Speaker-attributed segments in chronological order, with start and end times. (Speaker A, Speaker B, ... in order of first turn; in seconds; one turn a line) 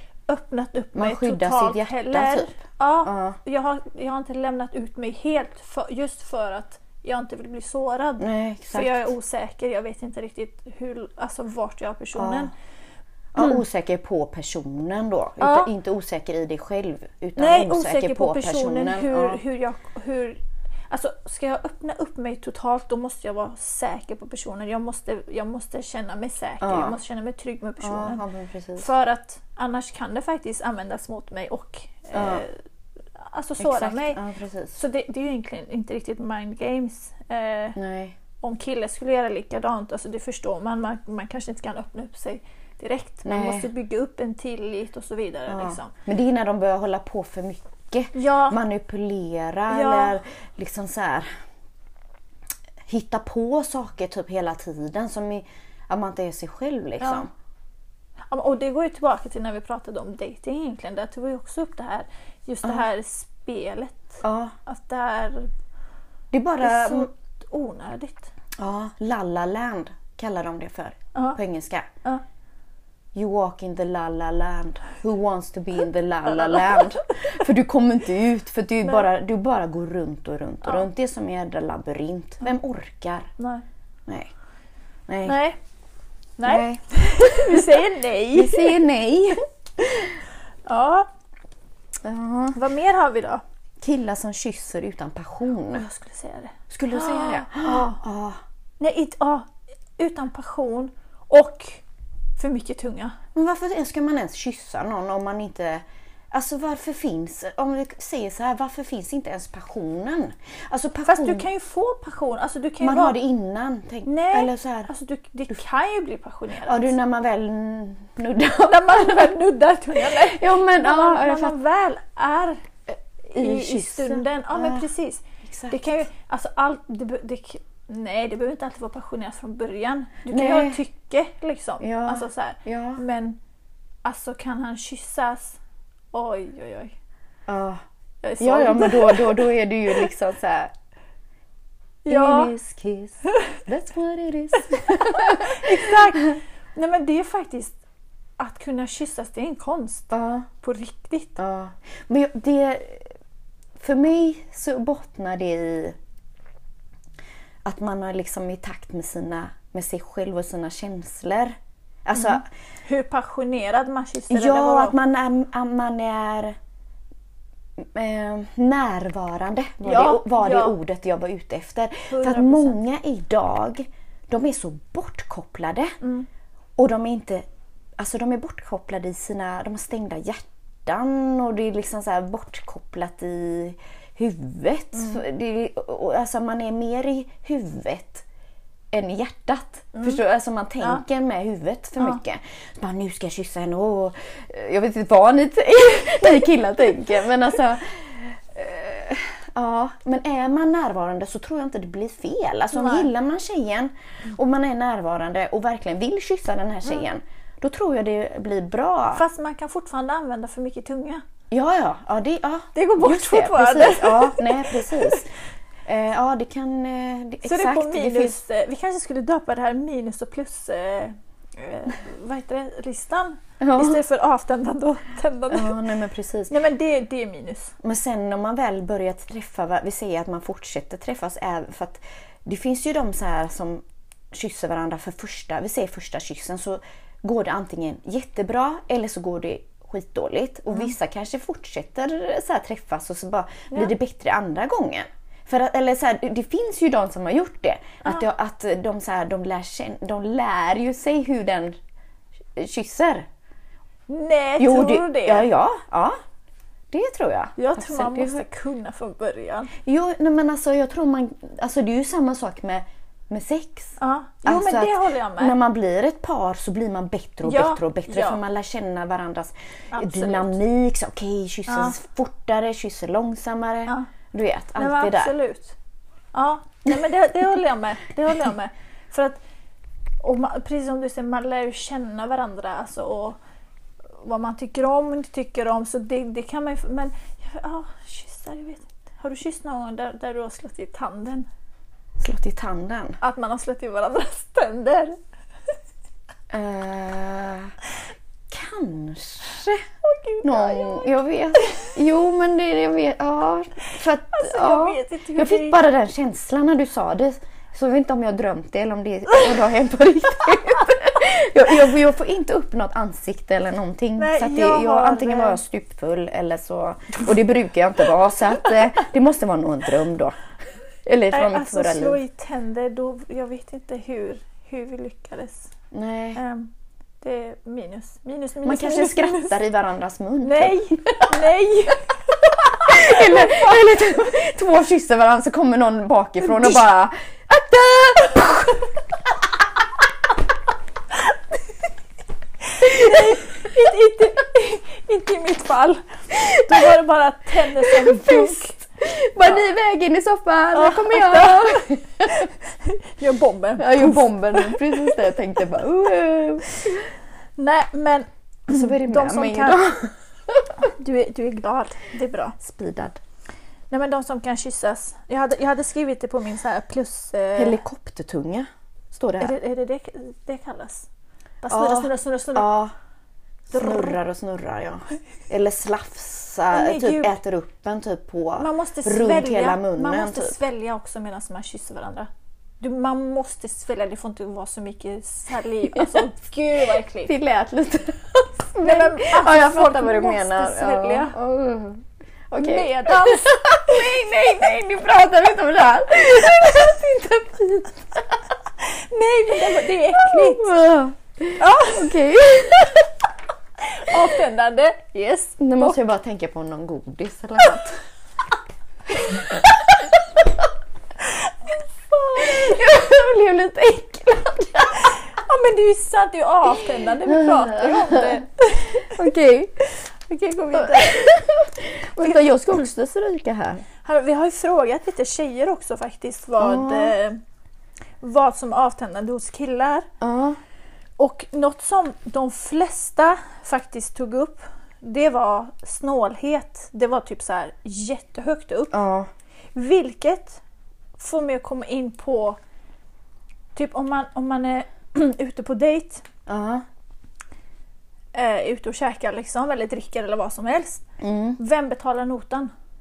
Speaker A: 0.3-12.5
Speaker B: 0.9-2.5
Speaker B: 3.0-3.4
Speaker B: 8.2-9.1
Speaker B: 12.1-12.5
Speaker B: 13.3-19.4
Speaker A: 15.4-15.7
Speaker A: 17.4-28.2
Speaker B: 26.6-27.0
Speaker B: 27.8-28.9
Speaker A: 28.8-32.6
Speaker B: 32.1-32.4
Speaker A: 33.2-34.2
Speaker B: 33.6-34.8
Speaker A: 34.7-37.8
Speaker B: 37.8-38.2
Speaker A: 38.4-45.9
Speaker B: 43.2-43.7
Speaker B: 45.5-51.3
Speaker A: 48.1-48.6
Speaker A: 49.7-50.1
Speaker B: 52.8-57.3
Speaker A: 57.0-57.2
Speaker A: 58.3-65.5
Speaker B: 64.2-64.5
Speaker B: 66.3-67.1
Speaker A: 66.6-68.3
Speaker B: 68.6-71.9
Speaker B: 73.1-83.3
Speaker A: 76.4-76.9
Speaker A: 83.4-83.6
Speaker B: 85.1-85.4
Speaker A: 85.2-85.6
Speaker A: 86.4-88.8
Speaker B: 86.4-87.8
Speaker B: 88.3-90.2
Speaker A: 90.7-91.1
Speaker B: 92.0-92.6
Speaker A: 92.5-93.4
Speaker B: 93.8-95.9
Speaker A: 95.7-98.0
Speaker B: 96.7-98.4
Speaker A: 98.8-101.8
Speaker A: 102.4-103.2
Speaker B: 103.3-111.5
Speaker A: 111.0-113.2
Speaker B: 112.8-114.9
Speaker A: 114.0-116.9
Speaker B: 116.6-119.4
Speaker A: 118.6-122.7
Speaker B: 119.9-121.5
Speaker A: 123.2-133.4
Speaker B: 123.3-124.9
Speaker B: 125.4-125.9
Speaker B: 130.3-130.8
Speaker B: 131.8-133.0
Speaker A: 134.0-135.6
Speaker A: 136.1-136.9
Speaker B: 137.5-137.8
Speaker A: 138.2-140.0
Speaker B: 138.4-140.7
Speaker A: 142.0-142.5
Speaker B: 142.1-146.0
Speaker A: 144.8-147.8
Speaker A: 148.4-151.4
Speaker B: 150.1-150.5
Speaker B: 151.4-153.1
Speaker B: 153.8-156.0
Speaker B: 157.6-162.4
Speaker A: 162.1-164.9
Speaker B: 164.3-166.5
Speaker B: 167.8-175.9
Speaker A: 169.8-170.8
Speaker A: 172.1-172.8
Speaker A: 176.0-176.3
Speaker B: 176.8-177.4
Speaker B: 178.0-188.2
Speaker A: 184.9-185.2
Speaker B: 188.9-209.2
Speaker A: 189.9-190.2
Speaker A: 202.7-203.1
Speaker A: 209.1-211.2
Speaker B: 211.5-215.3
Speaker A: 212.7-215.2
Speaker B: 215.9-218.4
Speaker A: 217.4-225.8
Speaker B: 223.6-224.0
Speaker B: 225.5-226.5
Speaker A: 226.5-227.7
Speaker B: 227.8-251.8
Speaker B: 252.6-253.3
Speaker A: 254.1-255.5
Speaker B: 254.6-256.2
Speaker B: 256.9-258.5
Speaker A: 257.6-259.7
Speaker B: 259.8-275.4
Speaker A: 264.0-265.6
Speaker A: 267.4-268.4
Speaker A: 269.9-270.6
Speaker A: 271.7-272.0
Speaker A: 274.8-275.7
Speaker A: 276.3-279.4
Speaker A: 280.2-283.4
Speaker A: 284.2-291.5
Speaker B: 292.2-293.2
Speaker A: 293.2-295.2
Speaker B: 296.5-297.7
Speaker B: 298.5-299.9
Speaker A: 300.0-301.9
Speaker B: 300.4-320.4
Speaker A: 304.3-305.8
Speaker A: 314.2-315.6
Speaker B: 321.1-322.2
Speaker A: 321.3-325.7
Speaker B: 325.9-326.4
Speaker A: 326.4-329.6
Speaker B: 328.6-331.5
Speaker A: 330.4-333.6
Speaker B: 332.7-338.9
Speaker A: 342.7-348.8
Speaker B: 342.8-343.4
Speaker B: 346.3-346.9
Speaker B: 347.8-352.5
Speaker A: 350.7-355.1
Speaker B: 353.8-357.1
Speaker A: 357.6-359.8
Speaker B: 358.7-360.7
Speaker A: 360.8-362.6
Speaker B: 362.6-363.2
Speaker A: 363.9-367.8
Speaker B: 367.6-369.6
Speaker A: 369.4-371.1
Speaker A: 371.6-372.7
Speaker B: 371.7-372.9
Speaker A: 373.7-374.2
Speaker B: 373.7-380.6
Speaker A: 376.7-377.4
Speaker A: 378.6-382.3
Speaker A: 382.8-387.3
Speaker B: 385.9-386.3
Speaker B: 387.2-398.4
Speaker A: 388.8-391.4
Speaker A: 392.6-393.9
Speaker A: 398.8-400.7
Speaker B: 400.1-403.1
Speaker A: 401.6-402.2
Speaker A: 403.9-406.0
Speaker B: 405.3-408.0
Speaker B: 409.1-410.5
Speaker A: 412.1-412.6
Speaker B: 412.4-415.1
Speaker A: 415.1-419.1
Speaker B: 417.1-419.9
Speaker A: 420.3-421.5
Speaker B: 420.7-423.9
Speaker A: 424.0-427.4
Speaker B: 426.6-427.1
Speaker A: 428.2-430.1
Speaker B: 430.2-430.6
Speaker A: 431.2-439.0
Speaker B: 438.9-439.3
Speaker A: 439.7-440.6
Speaker A: 441.2-442.6
Speaker A: 443.7-446.2
Speaker B: 446.4-446.9
Speaker A: 448.3-451.0
Speaker B: 451.2-451.6
Speaker A: 451.6-452.7